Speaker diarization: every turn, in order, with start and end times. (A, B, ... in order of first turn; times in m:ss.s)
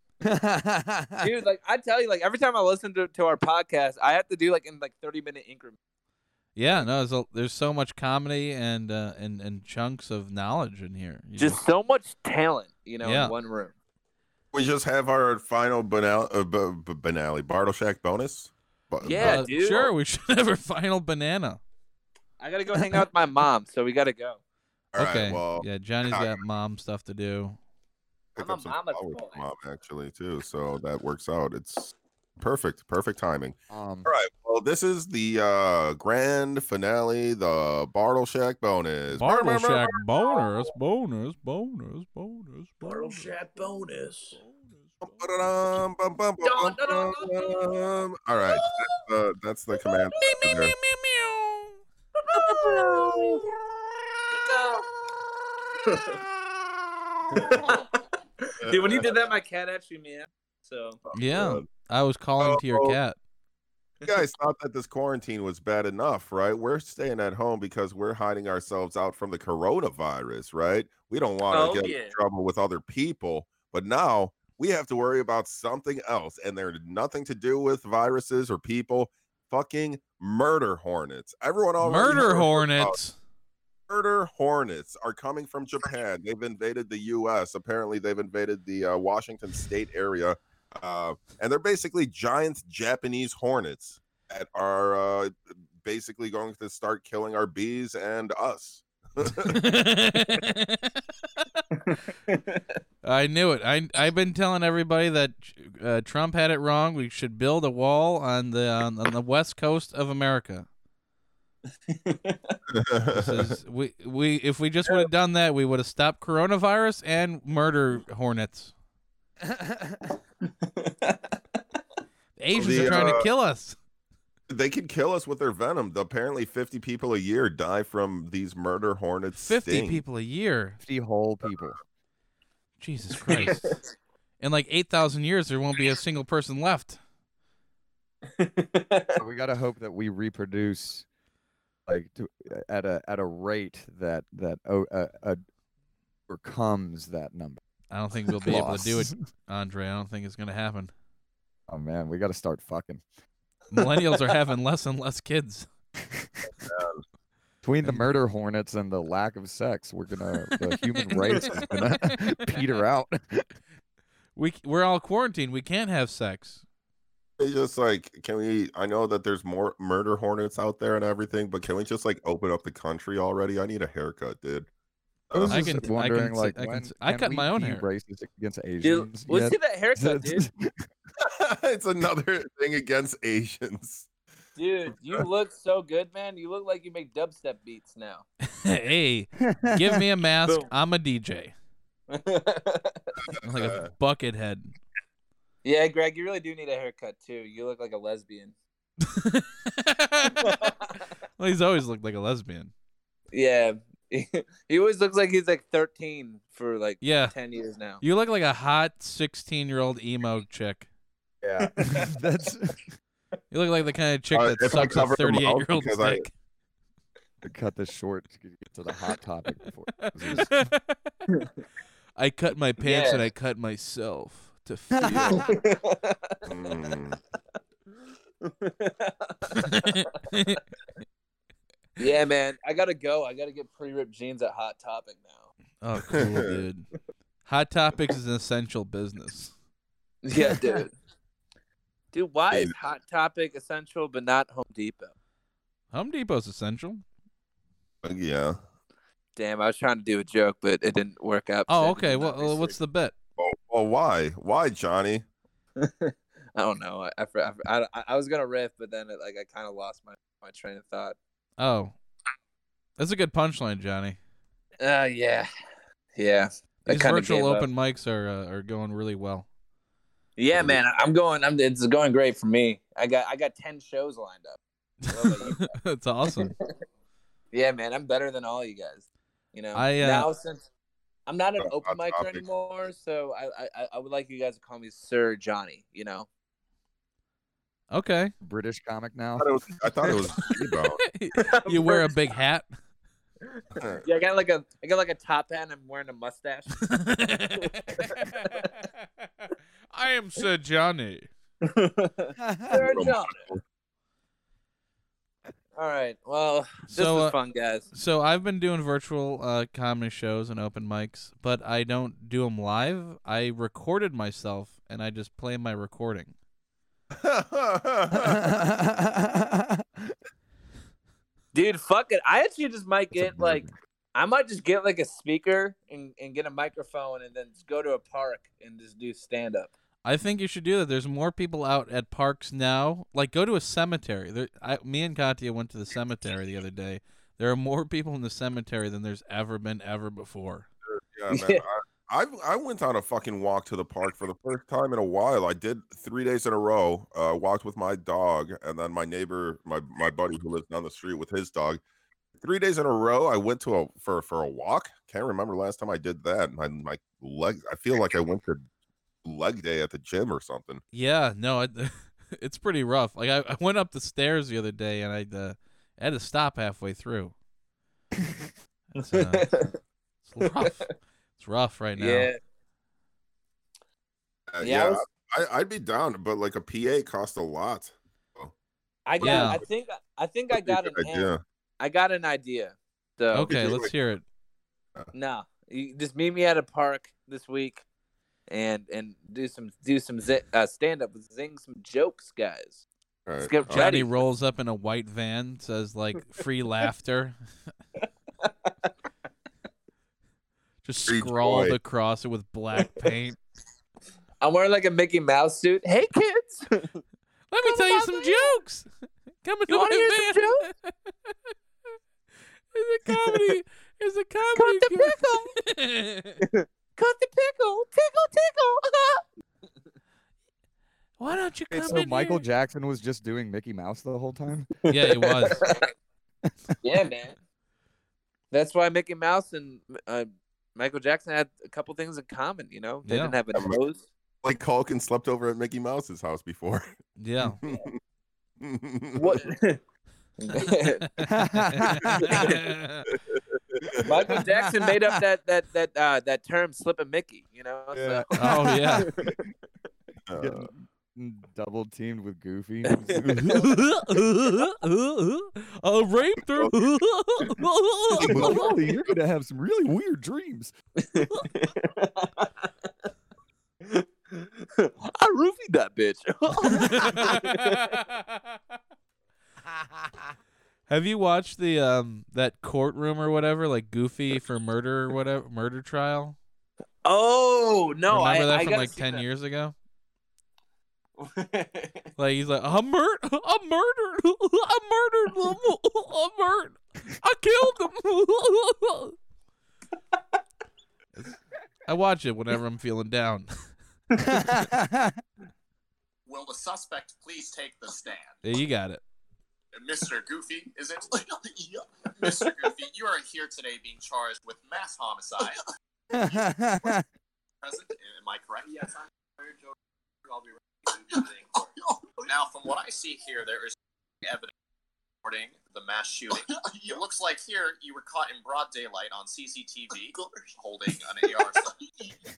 0:00.2-0:01.3 A
0:01.2-0:05.8 B
0:06.6-0:11.6 C
0:11.4-0:13.7 B
0:13.0-0:13.3 C
0:14.5-0:19.5 D
0:19.0-0:19.9 B
0:19.2-0:21.6 C
0:22.4-0:24.4 B
0:22.8-0:23.0 A
0:24.9-0:26.4 D
0:25.0-0:27.6 C
0:28.4-0:40.4 D
0:28.4-0:29.4 B
0:33.7-0:34.1 A
0:39.2-0:43.3 C
0:42.8-0:44.4 B
0:44.4-0:45.0 C
0:45.0-0:50.8 D
0:46.4-0:47.7 B
0:48.6-0:48.9 B
0:50.2-0:51.8 C
0:52.2-0:53.5 B
0:52.5-0:53.4 C
0:54.3-0:54.9 B
0:55.8-0:56.2 B
0:56.3-0:57.7 D
0:57.3-1:01.0 B
0:58.6-0:59.1 D
1:01.1-1:01.7 D
1:01.1-1:03.2 C
1:02.4-1:03.0 D
1:04.1-1:23.0 D
1:11.5-1:12.2 B
1:21.8-1:23.2 C
1:23.9-1:39.6 D
1:39.4-1:41.6 C
1:41.8-1:42.6 B
1:43.0-1:50.7 C
1:51.9-1:52.6 B
1:52.7-1:53.6 D
1:53.1-1:58.7 C
1:59.4-2:00.2 A
2:00.6-2:01.6 B
2:02.4-2:03.8 C
2:02.5-2:03.3 D
2:04.5-2:10.0 D
2:09.4-2:10.8 C
2:10.8-2:11.8 A
2:12.8-2:13.8 C
2:13.3-2:13.8 B
2:14.4-2:17.0 C
2:18.3-2:19.2 B
2:19.2-2:21.1 A
2:21.9-2:25.4 A
2:26.3-2:27.6 A
2:27.9-2:30.9 C
2:28.3-2:29.2 A
2:31.7-2:33.0 A
2:33.7-2:35.7 C
2:36.0-2:36.4 A
2:36.6-2:37.0 D
2:37.6-2:43.4 A
2:40.6-2:42.6 C
2:44.4-2:46.6 C
2:47.4-2:54.7 D
2:55.3-2:55.7 D
2:55.3-3:00.8 A
2:55.5-2:57.9 C
2:58.8-3:00.5 B
3:01.2-3:04.1 D
3:04.6-3:08.3 B
3:08.5-3:11.5 C
3:09.4-3:10.0 A
3:10.4-3:10.7 B
3:12.1-3:13.2 B
3:13.2-3:13.9 D
3:13.4-3:14.8 C
3:15.6-3:18.5 B
3:19.0-3:20.8 C
3:20.4-3:21.0 B
3:21.4-3:22.7 C
3:23.3-3:28.0 B
3:27.0-3:27.4 C
3:28.0-3:30.9 C
3:31.4-3:32.9 A
3:31.6-3:32.1 B
3:33.5-3:36.3 C
3:34.3-3:36.2 D
3:37.4-3:40.6 A
3:40.0-3:41.1 C
3:42.2-3:45.5 C
3:42.8-3:43.3 B
3:45.0-3:45.5 A
3:45.2-3:46.9 B
3:46.5-3:47.2 D
3:48.4-3:50.3 B
3:49.6-3:50.6 C
3:52.0-3:55.5 B
3:55.8-3:56.9 C
3:56.0-3:56.6 D
3:57.5-3:59.5 C
4:00.2-4:00.9 B
4:02.1-4:05.1 B
4:05.9-4:07.0 C
4:08.0-4:08.6 D
4:09.4-4:12.8 B
4:11.7-4:13.1 C
4:13.4-4:15.2 D
4:15.8-4:21.2 B
4:21.6-4:22.0 C
4:23.0-4:24.2 C
4:24.8-4:25.5 B
4:26.2-4:27.7 B
4:26.9-4:29.5 C
4:30.4-4:35.8 B
4:30.5-4:30.8 D
4:35.2-4:36.6 C
4:36.3-4:36.6 B
4:37.5-4:40.6 B
4:39.8-4:40.3 C
4:41.3-4:46.3 B
4:41.6-4:42.4 D
4:47.9-4:48.3 C
4:48.4-4:50.1 A
4:49.4-4:51.0 D
4:51.1-4:52.7 C
4:51.4-4:52.1 B
4:53.5-4:56.9 B
4:53.8-4:54.0 D
4:56.8-4:58.9 C
4:57.6-4:58.7 B
4:59.4-5:01.3 C
5:01.6-5:03.5 B
5:02.4-5:03.0 A
5:02.7-5:03.6 D
5:05.8-5:07.9 B
5:06.9-5:07.4 C
5:07.9-5:16.3 C
5:17.1-5:18.6 D
5:18.1-5:20.1 A
5:21.5-5:29.7 B
5:23.1-5:23.7 A
5:30.0-5:40.7 C
5:40.9-5:51.8 D
5:41.3-5:41.6 B
5:52.4-5:58.6 D
5:59.2-6:00.8 D
6:00.9-6:07.4 C
6:08.2-6:08.5 A
6:09.0-6:09.5 C
6:09.1-6:09.8 B
6:10.2-6:12.3 C
6:12.0-6:12.4 B
6:14.5-6:18.5 D
6:14.6-6:15.0 B
6:19.1-6:23.5 B
6:19.2-6:19.7 D
6:19.2-6:19.6 C
6:20.5-6:21.4 D
6:23.3-6:24.2 C
6:23.5-6:23.9 D
6:25.1-6:27.8 B
6:28.5-6:32.8 B
6:33.3-6:34.0 D
6:33.4-6:34.1 B
6:33.7-6:37.4 C
6:38.0-6:38.9 B
6:40.8-6:43.4 C
6:41.1-6:41.8 D
6:42.8-6:43.0 B
6:44.4-6:47.0 B
6:47.5-6:48.9 C
6:47.6-6:48.6 B
6:49.4-6:50.9 C
6:49.7-6:50.7 B
6:52.7-6:56.4 C
6:53.1-6:53.6 B
6:54.6-6:55.6 B
6:56.4-6:59.2 B
7:01.2-7:02.4 C
7:01.7-7:04.7 A
7:04.8-7:05.9 B
7:04.9-7:05.7 C
7:06.8-7:07.4 B
7:08.5-7:14.0 B
7:13.1-7:13.4 C
7:14.4-7:16.9 D
7:17.2-7:17.6 C
7:17.6-7:18.0 D
7:18.6-7:19.5 D
7:19.2-7:19.8 B
7:20.4-7:21.1 B
7:21.1-7:23.1 C
7:21.2-7:22.3 A
7:22.2-7:22.6 B
7:23.1-7:24.4 D
7:23.8-7:24.9 A
7:24.0-7:29.4 B
7:27.9-7:29.4 A
7:28.4-7:29.1 C
7:30.3-7:30.7 D
7:30.4-7:33.8 A
7:32.9-7:33.6 B
7:33.4-7:38.8 C
7:36.5-7:36.9 D
7:38.2-7:40.7 A
7:41.0-7:42.7 B
7:43.8-7:48.0 B
7:46.7-7:48.4 C
7:50.9-7:56.4 C
7:57.0-7:59.2 B
7:58.1-7:59.8 C
8:01.2-8:02.1 B
8:02.2-8:09.2 C
8:11.9-8:13.5 C
8:14.2-8:15.2 A
8:16.3-8:18.4 E
8:18.4-8:19.0 C
8:19.7-8:25.6 E
8:26.1-8:27.0 A
8:27.6-8:29.7 E
8:30.2-8:31.6 E
8:32.2-8:34.5 E
8:35.2-8:41.9 E